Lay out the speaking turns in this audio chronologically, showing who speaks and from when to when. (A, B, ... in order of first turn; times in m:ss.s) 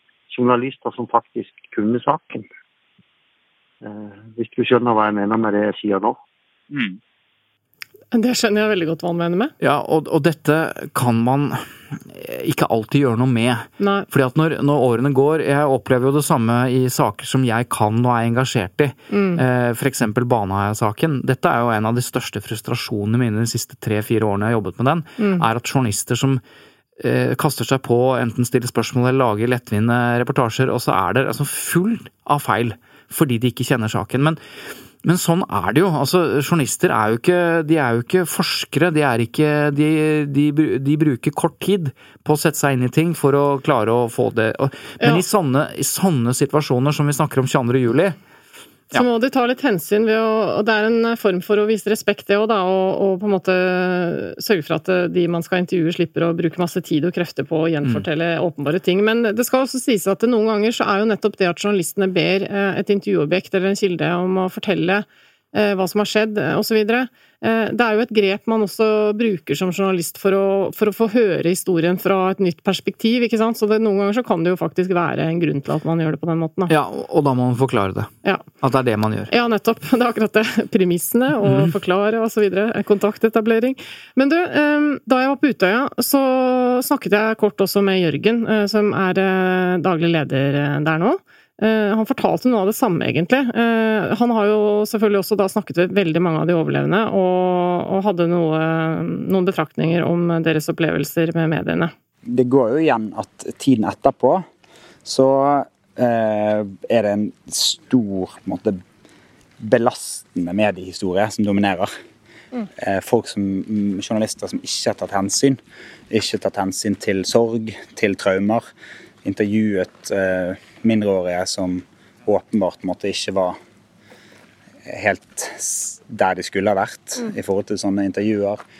0:00.3-0:02.4 A
0:03.8-0:06.2 A
0:08.1-0:09.5 B
0:09.6-0:26.4 C
0:13.8-0:14.1 B
0:19.1-0:19.4 B
0:25.2-0:25.4 B
0:27.0-0:34.4 C
0:35.0-0:48.2 C
0:48.9-1:16.7 B
1:16.7-1:19.3 C
1:19.3-1:41.9 B
1:21.4-1:21.7 C
1:42.3-1:44.4 D
1:45.0-1:48.8 D
1:49.6-1:51.9 D
1:52.8-1:55.6 D
1:56.1-1:58.7 D
1:59.2-2:03.6 D
2:04.9-2:08.6 D